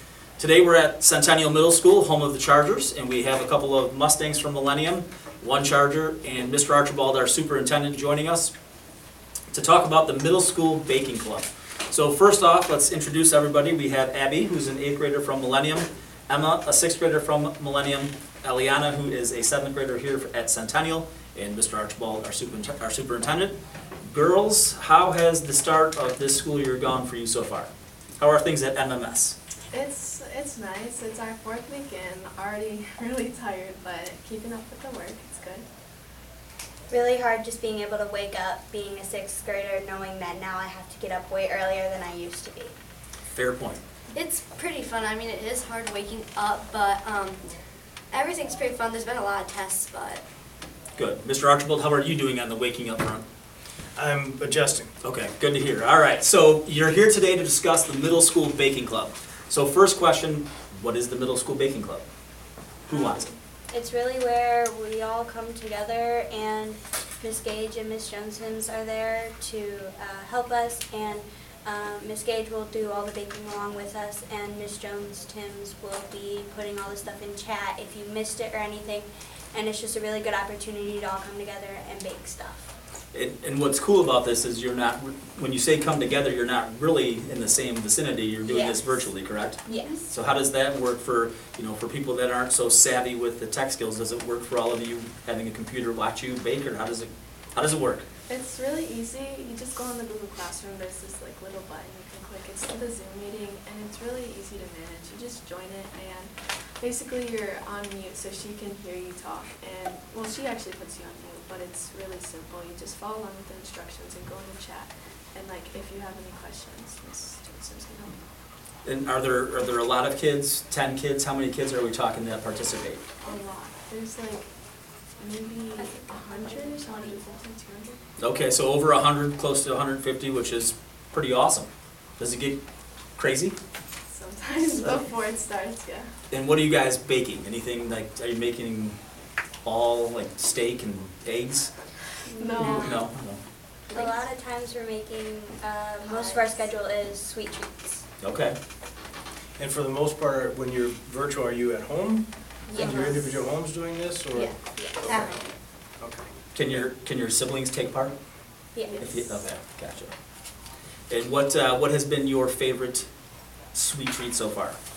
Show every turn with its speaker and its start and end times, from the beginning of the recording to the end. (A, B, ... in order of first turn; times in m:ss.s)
0:00.4-0:08.5 A
0:09.5-0:23.5 A
0:24.0-0:29.4 A
0:29.7-0:35.6 B
0:36.9-0:42.7 C
0:43.3-0:43.8 A
0:44.1-0:47.4 D
0:48.1-0:50.2 D
0:51.0-0:53.2 A
0:54.0-0:54.9 E
0:55.0-1:02.0 A
1:02.9-1:03.3 A
1:03.7-1:22.7 C
1:23.1-1:38.0 A
1:28.4-1:29.0 C
1:29.6-1:30.0 C
1:38.3-1:58.2 B
1:58.8-2:03.1 A
2:03.2-2:04.5 B
2:05.2-2:08.0 B
2:05.8-2:07.2 D
2:08.2-2:12.6 A
2:13.2-2:13.6 A
2:14.1-2:16.1 B
2:16.3-2:19.0 A
2:19.6-2:21.7 A
2:22.2-2:23.0 C
2:22.3-2:23.0 B
2:22.7-2:23.4 A
2:23.9-2:24.2 D
2:23.9-2:28.0 C
2:26.0-2:26.4 D
2:28.2-2:28.6 A
2:29.6-2:35.4 E
2:32.7-2:33.3 D
2:32.7-2:33.2 C
2:34.3-2:35.5 D
2:34.8-2:35.1 C
2:36.0-2:36.2 E
2:36.5-2:38.1 A
2:38.7-2:39.1 C
2:38.8-2:39.4 B
2:39.0-2:40.1 A
2:41.1-2:43.1 A
2:43.7-2:44.8 A